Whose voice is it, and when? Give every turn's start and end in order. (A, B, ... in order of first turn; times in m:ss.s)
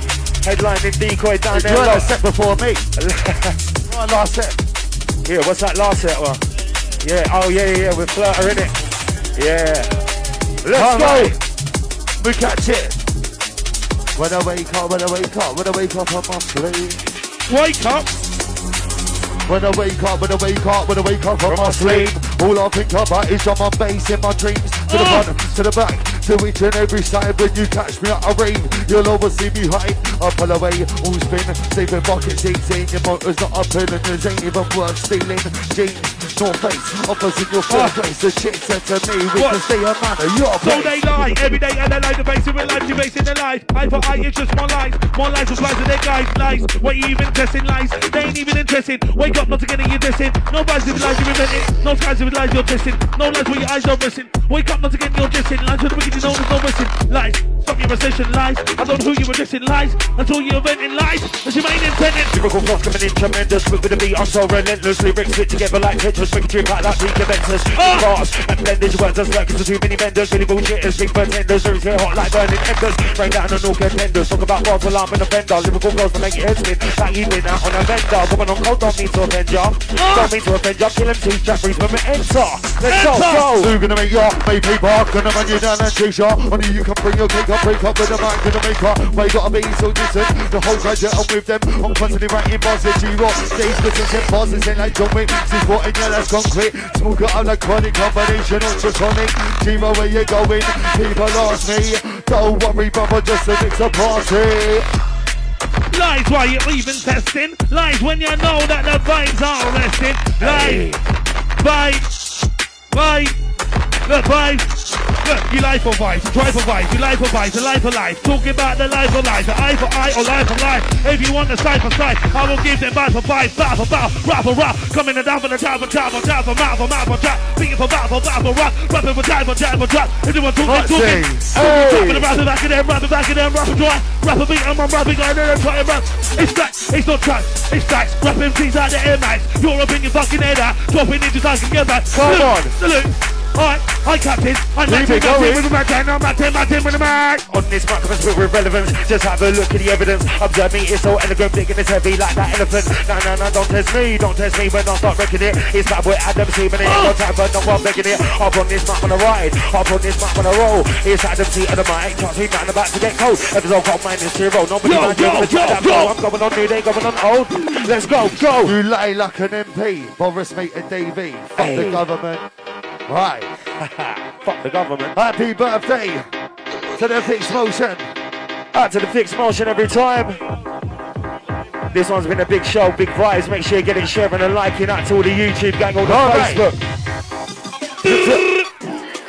0:00.4-0:02.2 A
0:01.5-0:02.9 B
0:03.0-0:03.6 A
0:03.9-0:04.6 B
0:05.2-0:06.4 A
0:07.0-0:08.8 A
0:09.4-0:10.0 A
0:10.6-0:11.4 A
0:10.7-0:11.4 B
0:12.2-0:13.0 B
0:14.2-0:17.0 B
0:17.5-0:18.1 C
0:19.5-0:41.6 B
0:21.5-0:22.2 A
0:24.9-0:25.3 C
0:37.7-0:38.0 C
0:39.4-0:39.7 C
0:40.6-1:02.3 C
1:02.3-1:23.7 A
1:07.7-1:08.2 C
1:20.0-1:20.4 C
1:22.8-1:23.5 C
1:23.5-1:44.9 B
1:45.9-1:50.9 C
1:50.4-1:51.0 A
1:51.6-1:52.1 C
1:52.9-1:53.4 C
1:54.1-1:54.7 C
1:55.2-2:27.5 C
2:10.6-2:11.5 B
2:11.5-2:12.3 A
2:22.1-2:22.7 A
2:22.3-2:22.7 B
2:24.9-2:25.6 B
2:27.5-2:48.8 A
2:36.8-2:37.2 C
2:44.8-2:46.2 C
2:48.6-2:52.4 B
2:51.6-2:52.0 A
2:53.1-2:53.5 B
2:53.8-2:55.2 A
2:55.1-2:56.3 B
2:57.0-2:58.1 B
2:58.7-3:00.4 A
3:01.9-3:06.8 A
3:06.0-3:06.7 B
3:08.1-3:08.4 A
3:08.1-3:08.6 C
3:08.1-3:08.4 B